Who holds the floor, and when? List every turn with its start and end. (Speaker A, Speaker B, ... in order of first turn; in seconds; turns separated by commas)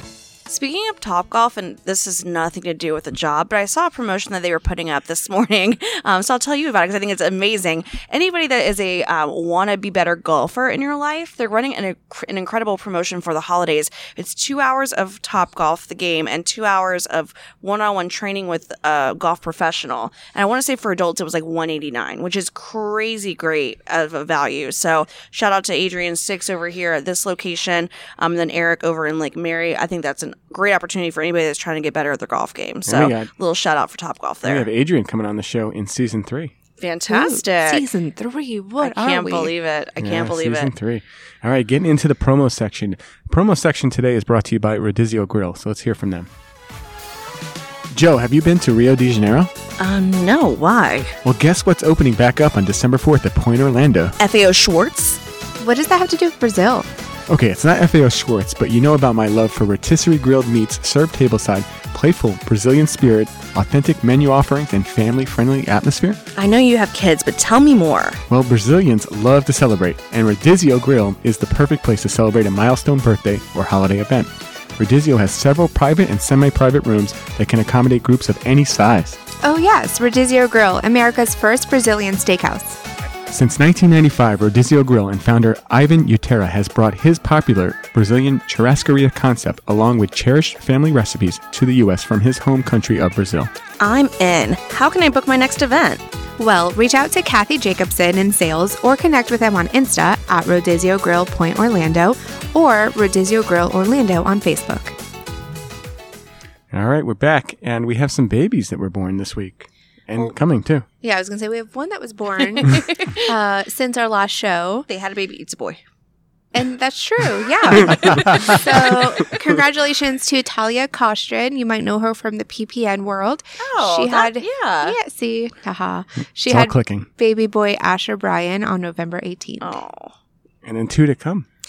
Speaker A: 0.5-34.7, Speaker B: 32.9-33.3, Speaker B: 34.4-36.5, Speaker A: 36.8-37.9, Speaker C: 37.1-39.5, Speaker A: 38.8-40.7, Speaker B: 40.0-46.3, Speaker B: 47.9-49.5, Speaker A: 49.8-51.2, Speaker B: 51.2-54.1, Speaker A: 54.2-55.2, Speaker C: 55.6-56.9, Speaker B: 57.3-66.2, Speaker A: 66.3-68.2, Speaker B: 68.3-79.2, Speaker C: 79.4-82.8, Speaker B: 83.3-93.5, Speaker A: 93.8-96.0, Speaker C: 96.4-105.0, Speaker B: 106.7-110.8, Speaker C: 111.0-114.9, Speaker A: 112.6-113.2, Speaker A: 114.9-115.8, Speaker C: 116.5-129.8, Speaker A: 118.4-119.0, Speaker A: 123.6-125.0, Speaker B: 126.5-127.1, Speaker A: 129.6-130.1, Speaker B: 130.6-131.5